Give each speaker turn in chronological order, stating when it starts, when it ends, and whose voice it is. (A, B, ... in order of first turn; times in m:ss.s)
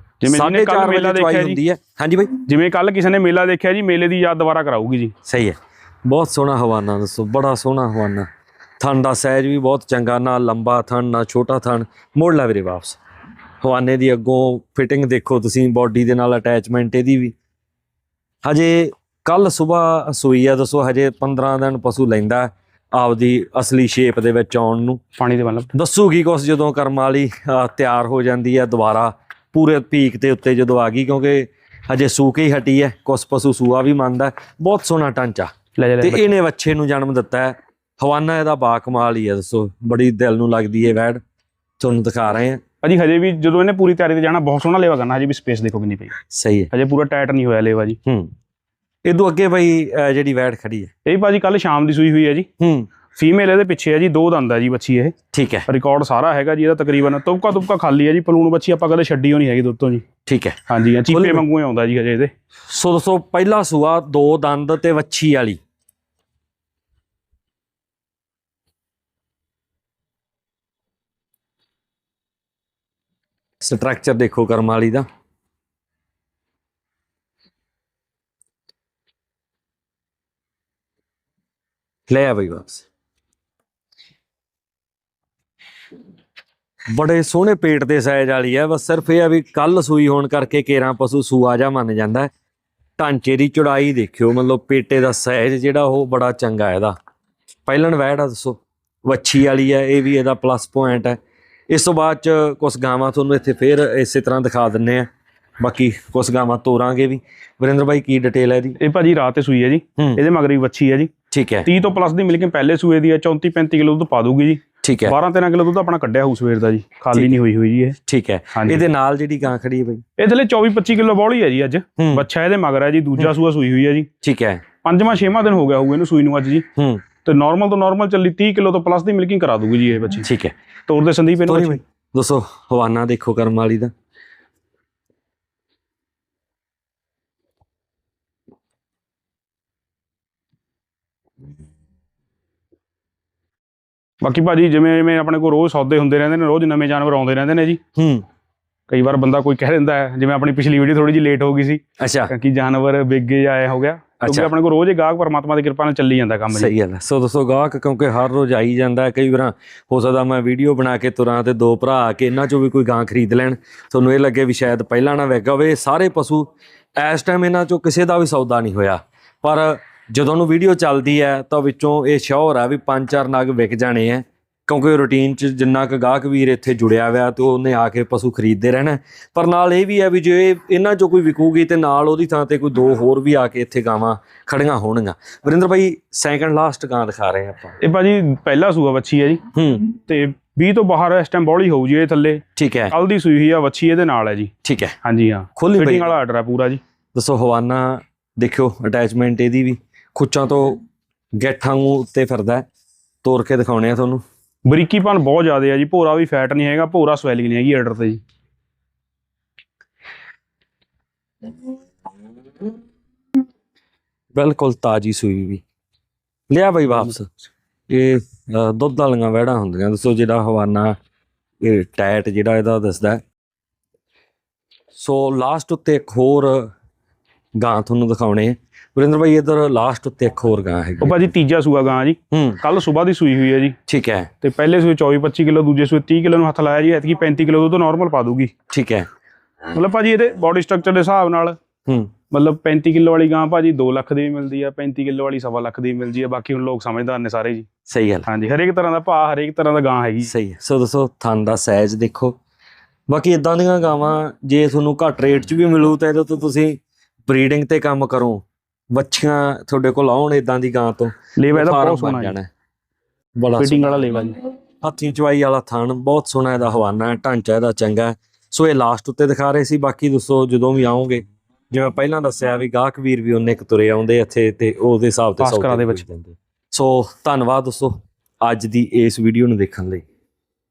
0:00.2-0:01.6 A
0:00.2-0:02.4 B
0:02.4-0:05.1 A
0:05.2-0:08.3 B
0:08.8-0:13.0 B
0:13.6-0:17.3 B
0:18.4-0:25.0 B
0:25.2-0:25.7 A
0:25.7-0:41.2 B
0:35.8-0:36.3 A
0:41.8-0:42.6 B
0:42.8-0:46.1 A
0:46.3-0:46.7 B
0:46.7-0:48.0 A
0:48.0-0:48.3 B
0:49.0-0:50.9 B
0:51.0-0:52.5 A
0:52.6-0:52.9 B
0:53.1-0:55.1 A
0:55.3-0:55.7 B
0:55.7-1:00.0 A
1:00.2-1:01.4 B
1:00.7-1:02.3 A
1:02.7-1:05.6 B
1:13.6-1:15.0 B
1:22.1-1:22.8 B
1:26.9-1:32.3 B
1:33.0-1:36.9 B
1:37.6-1:41.2 B
1:41.7-1:45.1 B
1:45.6-1:48.8 B
1:48.8-1:51.1 A
1:51.3-1:51.7 B
1:51.6-1:58.0 A
1:54.8-1:55.1 B
1:58.0-2:00.0 B
1:58.5-1:58.8 A
2:00.2-2:04.1 A
2:02.0-2:02.2 B
2:04.2-2:04.6 B
2:04.8-2:06.6 A
2:06.8-2:07.0 B
2:07.2-2:10.3 A
2:10.2-2:10.5 B
2:10.9-2:11.8 A
2:11.4-2:13.9 B
2:24.2-2:27.8 A
2:28.0-2:28.2 B
2:28.9-2:36.7 A
2:32.0-2:32.3 B
2:34.2-2:34.5 B
2:36.5-3:07.8 B
3:07.8-3:14.5 A
3:09.5-3:09.9 B
3:12.6-3:12.9 B
3:14.6-3:14.9 B
3:15.0-3:16.8 A
3:15.6-3:16.1 B
3:17.1-3:20.8 B
3:21.3-3:22.7 B
3:23.2-3:24.2 B
3:24.7-3:28.2 A
3:34.3-3:35.6 B
3:36.5-3:37.3 B
3:37.9-3:40.9 B
3:41.6-3:43.2 B
3:44.9-3:46.7 B
3:47.6-3:51.3 B
3:51.0-3:53.7 A
3:52.3-3:52.6 B
3:53.9-3:54.3 B
3:54.4-3:58.5 A
3:58.7-3:59.1 B
3:59.7-4:01.6 A
4:01.8-4:02.1 B
4:02.3-4:07.7 A
4:07.9-4:08.3 B
4:08.3-4:10.3 A
4:10.2-4:12.4 B
4:13.1-4:22.5 B
4:21.4-4:22.3 A
4:23.4-4:24.1 B
4:23.6-4:24.4 A
4:24.8-4:40.0 B
4:35.4-4:36.1 A